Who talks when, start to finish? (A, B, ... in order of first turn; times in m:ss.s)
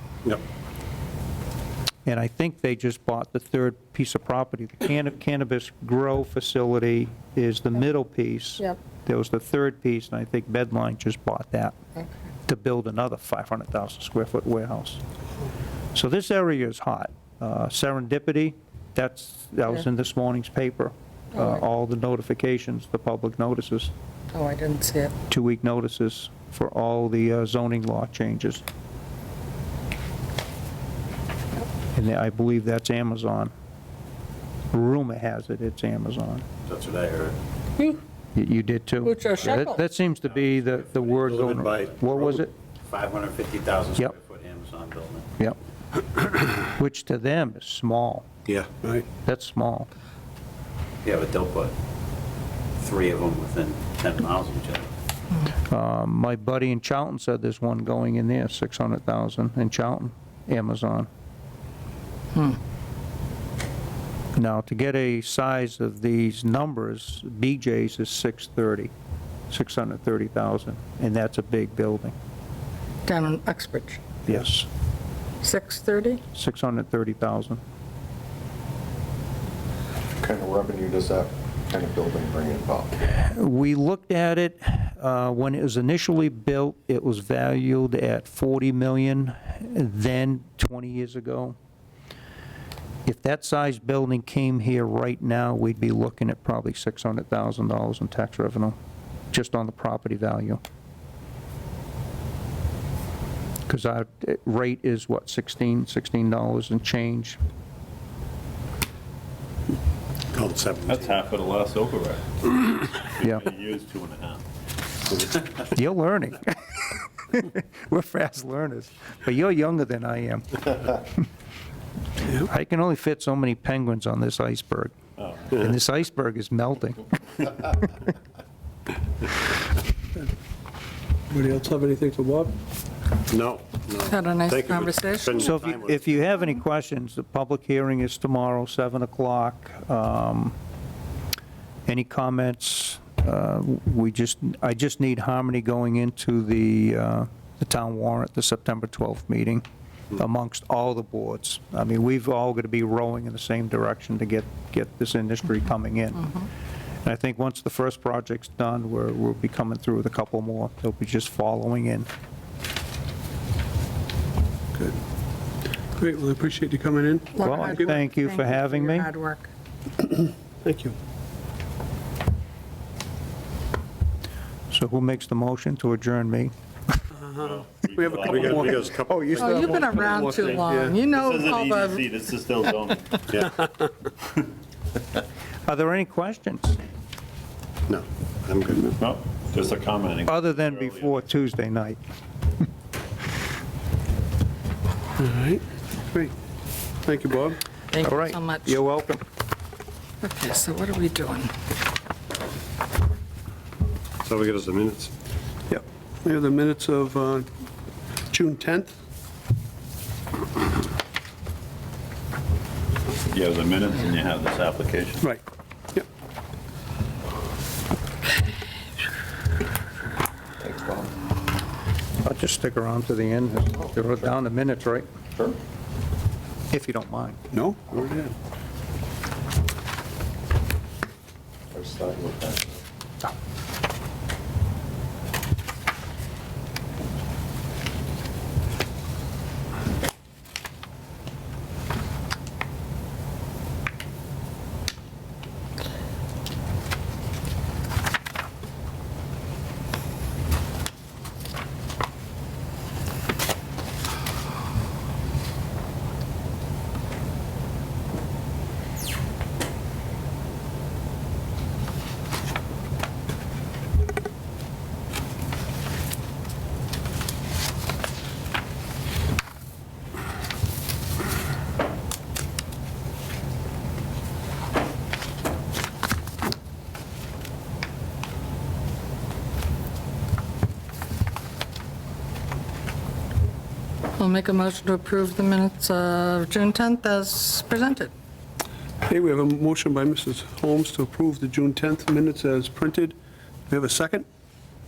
0:02.0-0:11.8 A
0:12.4-0:15.0 A
0:15.9-0:23.9 A
0:24.3-0:25.1 B
0:25.3-0:28.6 A
0:31.9-0:33.5 A
0:34.7-0:36.4 A
0:36.6-0:37.4 C
0:37.8-0:38.0 B
0:38.3-0:42.5 A
0:39.0-0:39.8 B
0:40.2-0:42.0 C
0:41.4-0:42.3 D
0:42.8-0:45.3 C
0:46.6-0:48.3 A
0:48.8-0:49.0 E
0:49.2-0:49.9 A
0:51.0-0:51.7 C
0:52.8-0:54.9 C
0:55.6-1:01.1 A
1:02.3-1:02.6 B
1:04.3-1:08.9 A
1:09.5-1:12.1 A
1:13.0-1:14.0 B
1:14.2-1:14.7 A
1:15.4-1:16.2 B
1:16.3-1:17.6 A
1:20.2-1:22.9 F
1:23.1-1:31.6 A
1:33.0-1:38.8 A
1:39.3-1:40.6 A
1:43.7-1:47.4 A
1:50.3-1:51.1 D
1:50.9-1:54.4 G
1:55.6-2:01.0 A
2:02.3-2:07.9 A
2:11.3-2:12.6 E
2:13.3-2:16.0 D
2:14.1-2:15.6 B
2:15.4-2:20.6 A
2:21.9-2:36.4 A
2:37.0-2:42.1 A
2:46.0-2:48.0 E
2:47.3-2:49.5 B
2:47.4-2:49.1 A
2:50.0-2:51.0 E
2:54.7-2:56.5 A
2:57.2-2:58.7 E
2:57.4-2:59.0 G
2:58.2-3:00.7 D
2:59.4-3:02.2 B
2:59.4-3:01.0 E
3:01.0-3:03.3 G
3:05.7-3:06.8 A
3:07.9-3:08.9 D
3:09.0-3:11.2 G
3:10.3-3:12.0 A
3:15.2-3:16.3 E
3:17.0-3:17.6 E
3:17.9-3:18.8 B
3:18.0-3:19.2 A
3:20.2-3:21.5 B
3:24.3-3:25.1 D
3:25.7-3:27.5 E
3:28.3-3:28.9 E
3:33.2-3:35.3 G
3:40.6-3:41.1 F
3:42.2-3:45.0 A
3:46.7-3:47.4 A
3:47.5-3:48.3 E
3:51.7-3:52.8 F
4:44.2-4:48.1 B
4:49.0-4:53.2 E
4:53.7-4:54.2 E